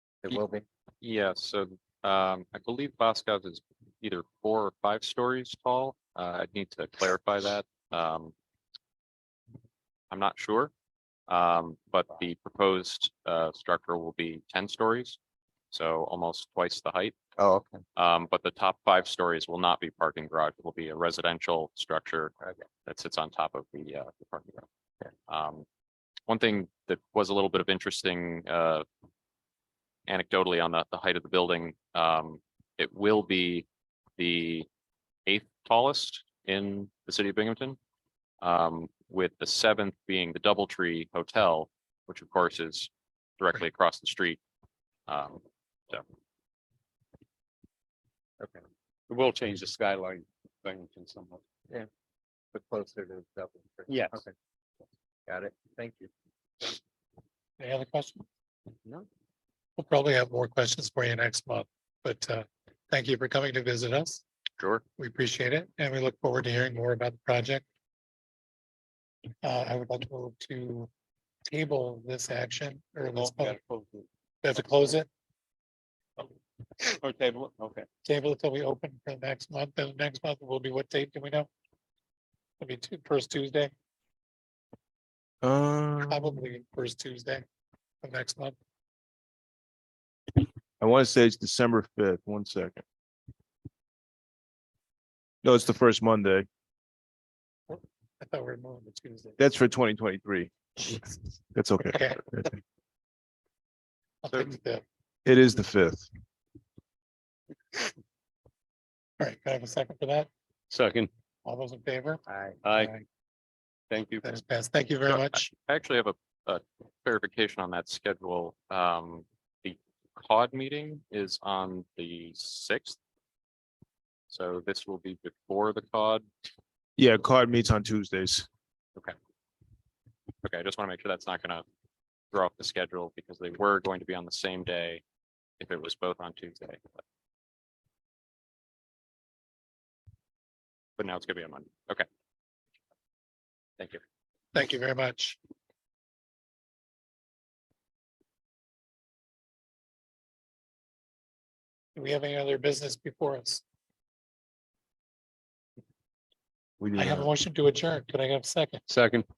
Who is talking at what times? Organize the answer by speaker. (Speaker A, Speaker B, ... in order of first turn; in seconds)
Speaker A: 0.2-0.6, 17.4-17.8, 52.5-54.3, 55.3-56.1, 112.3-112.6
Speaker B: 1.0-8.3, 10.1-10.7, 11.3-15.2, 15.7-17.1, 18.0-22.3, 22.9-24.7, 25.3-25.6, 26.3-28.9, 30.1-33.6, 34.2-34.7, 35.3-37.8, 38.4-44.4, 45.1-46.0, 115.1-123.0, 124.3-126.3, 130.4-131.7, 132.3-135.0, 135.6-136.8, 141.0-142.1
Speaker C: 49.1-51.4, 53.9-54.2, 73.1-74.1, 76.8-77.9, 110.7-111.1, 112.6-112.9, 113.9-114.3, 158.9-159.3
Speaker D: 57.6-58.3, 59.8-64.2, 65.0-67.6, 69.4-70.9, 71.5-73.6, 74.4-75.1, 78.0-81.5, 82.6-83.7, 86.0-87.5, 88.0-88.6, 97.7-99.4, 101.8-102.2, 104.2-104.8, 109.2-110.3, 111.5-112.2, 112.7-113.0, 114.2-115.5, 144.5-145.4, 152.0-153.6, 156.9-158.8
Speaker E: 85.4-86.4, 90.8-92.8, 95.4-96.5, 99.4-100.5, 101.5-102.5, 105.3-106.1, 127.0-128.5, 156.8-157.3